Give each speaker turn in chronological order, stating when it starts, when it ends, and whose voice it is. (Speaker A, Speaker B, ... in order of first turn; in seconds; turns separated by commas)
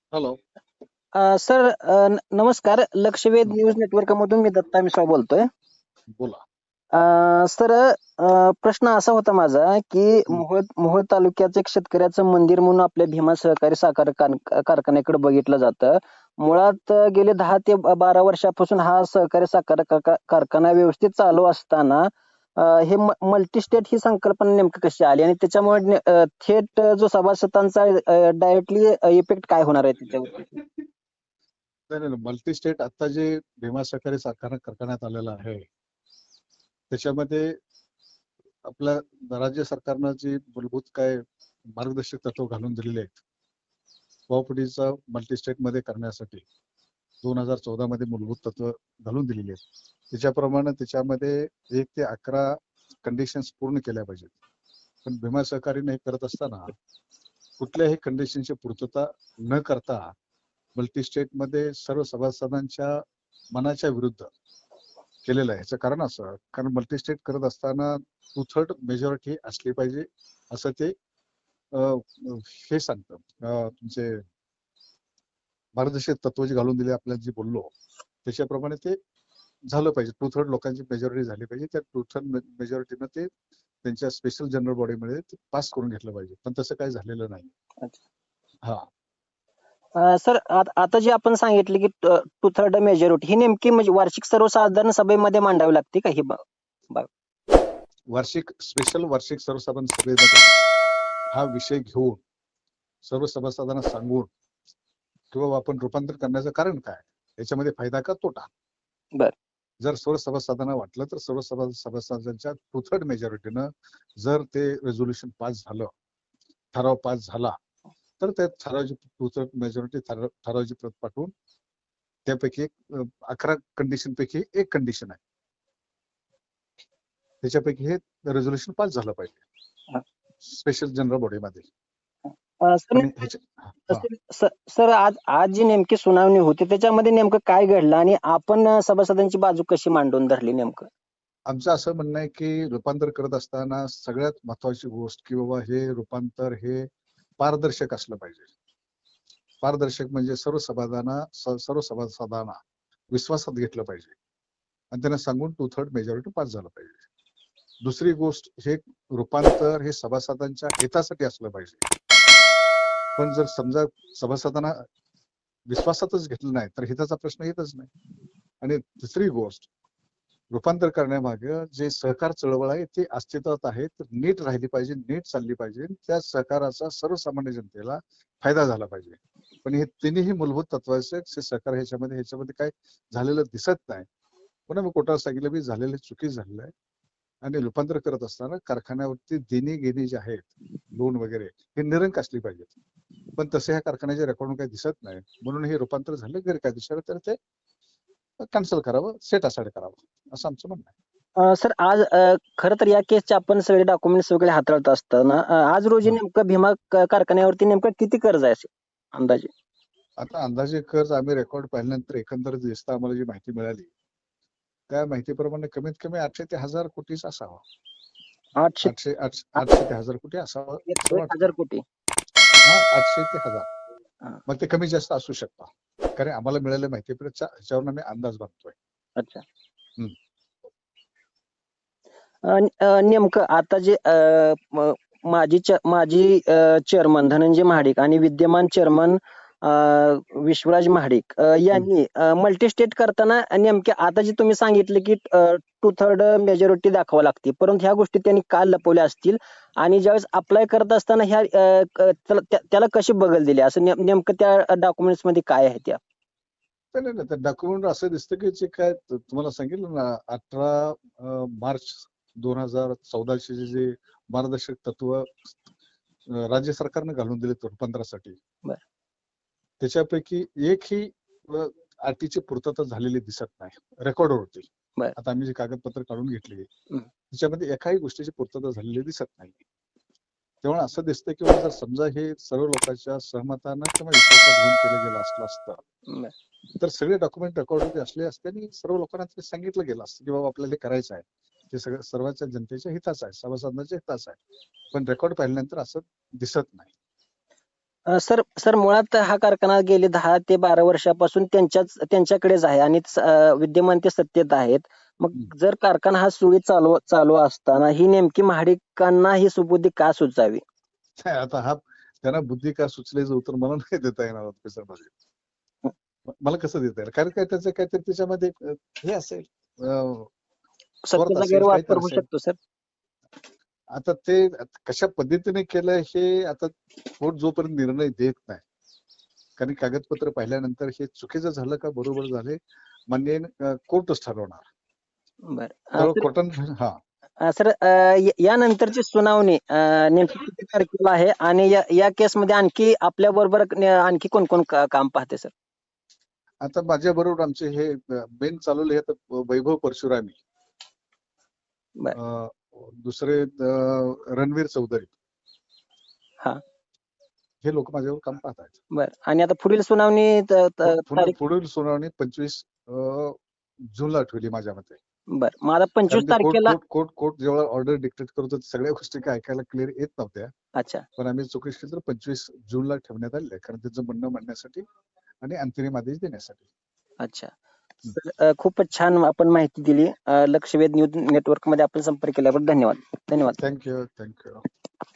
Speaker A: 0.1-0.4, Speaker B: 1.1-5.5, Speaker A: 6.2-6.4, Speaker B: 6.9-30.5, Speaker A: 31.9-35.6, Speaker A: 36.9-37.6, Speaker A: 38.6-41.2, Speaker A: 41.8-43.2, Speaker A: 44.3-46.5, Speaker A: 47.2-54.3, Speaker A: 55.0-56.7, Speaker A: 57.6-60.1, Speaker A: 60.7-64.3, Speaker A: 65.2-71.0, Speaker A: 71.7-74.2, Speaker A: 75.8-77.7, Speaker A: 78.2-79.0, Speaker A: 79.7-83.3, Speaker A: 83.8-87.5, Speaker B: 90.0-96.4, Speaker A: 98.1-100.5, Speaker A: 101.3-102.2, Speaker A: 103.0-104.3, Speaker A: 105.3-108.5, Speaker A: 109.8-115.9, Speaker A: 116.7-117.5, Speaker A: 118.2-121.3, Speaker A: 122.3-125.2, Speaker A: 127.4-129.4, Speaker A: 130.4-131.7, Speaker B: 132.6-133.3, Speaker A: 132.9-134.1, Speaker B: 133.9-140.9, Speaker A: 141.5-148.5, Speaker A: 149.6-152.6, Speaker A: 153.1-154.1, Speaker A: 154.9-157.0, Speaker A: 157.8-161.8, Speaker A: 163.2-164.8, Speaker A: 165.7-167.9, Speaker A: 168.6-169.7, Speaker A: 170.5-184.1, Speaker A: 184.7-186.7, Speaker A: 187.4-192.7, Speaker A: 193.4-197.4, Speaker A: 198.4-200.9, Speaker B: 201.4-209.5, Speaker A: 210.2-213.9, Speaker A: 214.9-217.6, Speaker B: 218.6-218.9, Speaker A: 218.8-221.5, Speaker B: 220.9-221.8, Speaker A: 222.6-223.7, Speaker A: 224.5-228.8, Speaker B: 229.2-229.4, Speaker B: 232.4-256.0, Speaker A: 256.9-265.6, Speaker A: 266.3-268.4, Speaker A: 269.8-276.7, Speaker A: 277.3-279.6, Speaker A: 280.6-285.8, Speaker A: 286.8-294.4, Speaker A: 294.9-296.9, Speaker B: 298.1-310.6, Speaker A: 311.2-315.1, Speaker A: 316.3-320.3, Speaker B: 321.1-322.6, Speaker A: 321.1-322.2, Speaker A: 323.9-328.6, Speaker A: 329.6-334.6, Speaker B: 335.5-336.3, Speaker A: 336.0-337.0, Speaker B: 337.4-345.5, Speaker A: 346.6-350.4, Speaker A: 352.1-355.1, Speaker A: 357.6-358.8, Speaker B: 358.9-361.3, Speaker A: 360.8-363.4, Speaker A: 363.9-365.0, Speaker B: 365.3-366.8, Speaker A: 366.1-370.5, Speaker B: 370.8-371.1, Speaker A: 371.2-374.8, Speaker A: 375.4-376.7, Speaker B: 377.2-377.5, Speaker B: 378.1-383.6, Speaker A: 383.6-384.6